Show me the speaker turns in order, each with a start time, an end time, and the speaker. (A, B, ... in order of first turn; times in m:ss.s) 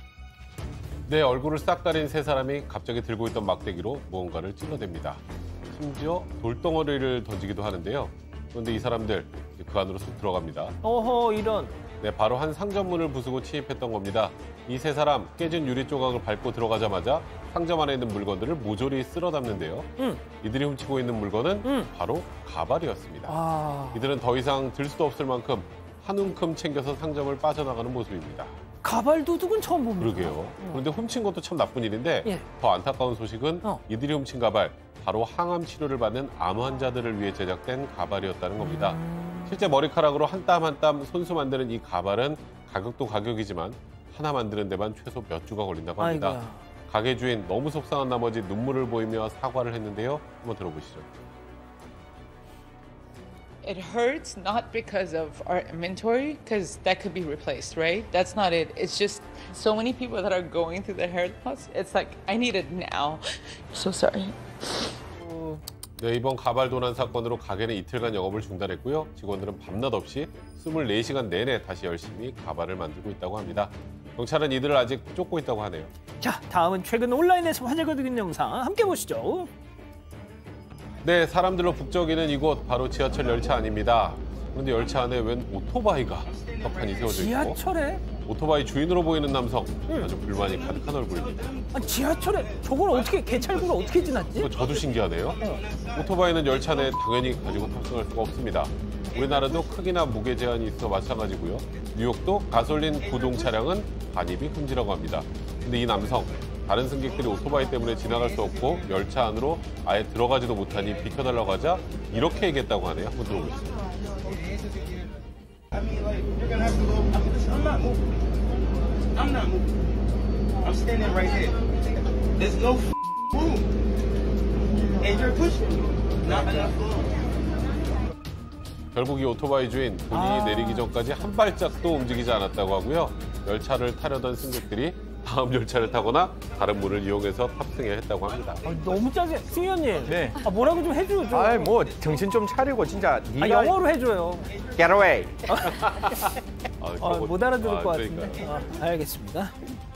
0:01.1-0:10.8 A
0:10.8-0:11.8 B
0:12.0-0:23.4 A
0:20.0-0:20.2 B
0:21.6-0:21.9 B
0:23.3-0:24.1 B
0:23.9-0:28.6 A
0:28.8-0:30.8 B
0:30.0-0:51.1 A
0:38.6-0:39.6 B
0:46.0-0:46.6 B
0:53.6-1:05.0 C
1:05.2-1:05.6 B
1:06.0-1:15.9 A
1:16.2-1:19.5 B
1:21.0-1:27.6 A
1:27.1-1:28.1 B
1:28.2-1:31.6 A
1:29.9-1:30.1 B
1:31.7-1:34.5 B
1:34.4-1:53.6 A
1:35.4-1:35.8 B
2:08.9-2:18.6 A
2:10.1-2:10.9 B
2:18.6-2:21.8 B
2:20.1-2:20.5 D
2:21.3-2:23.8 D
2:23.4-2:24.6 B
2:24.7-2:25.7 D
2:25.5-2:26.2 B
2:25.7-2:26.3 A
2:26.8-2:28.8 A
2:27.0-2:29.6 B